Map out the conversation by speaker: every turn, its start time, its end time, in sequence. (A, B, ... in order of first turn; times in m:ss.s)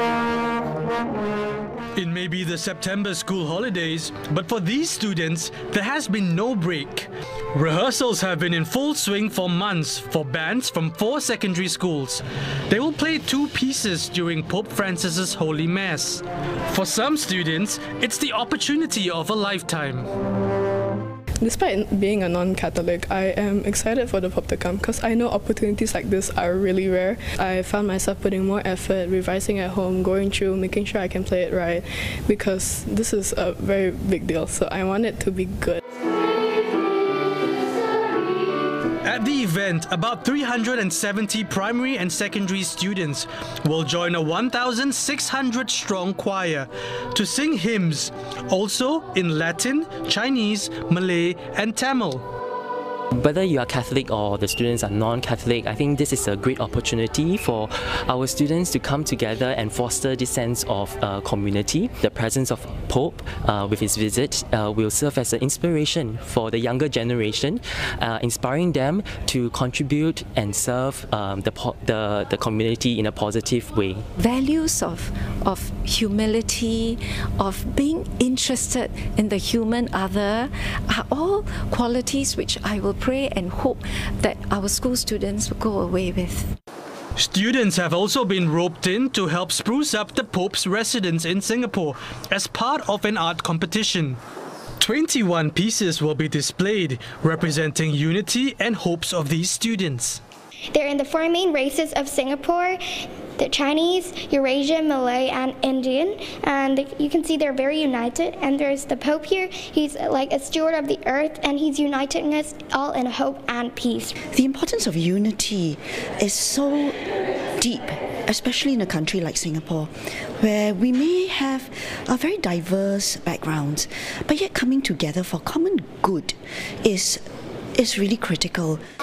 0:02.0-0:20.1 A
0:21.4-0:35.8 B
0:39.0-0:52.2 A
0:53.2-1:14.1 C
1:14.2-1:26.6 D
1:27.2-1:34.2 A
1:34.8-1:40.2 A
1:40.7-1:42.8 E
1:43.4-1:54.2 E
1:54.3-1:57.0 F
1:57.6-2:07.2 F
2:07.8-2:08.8 F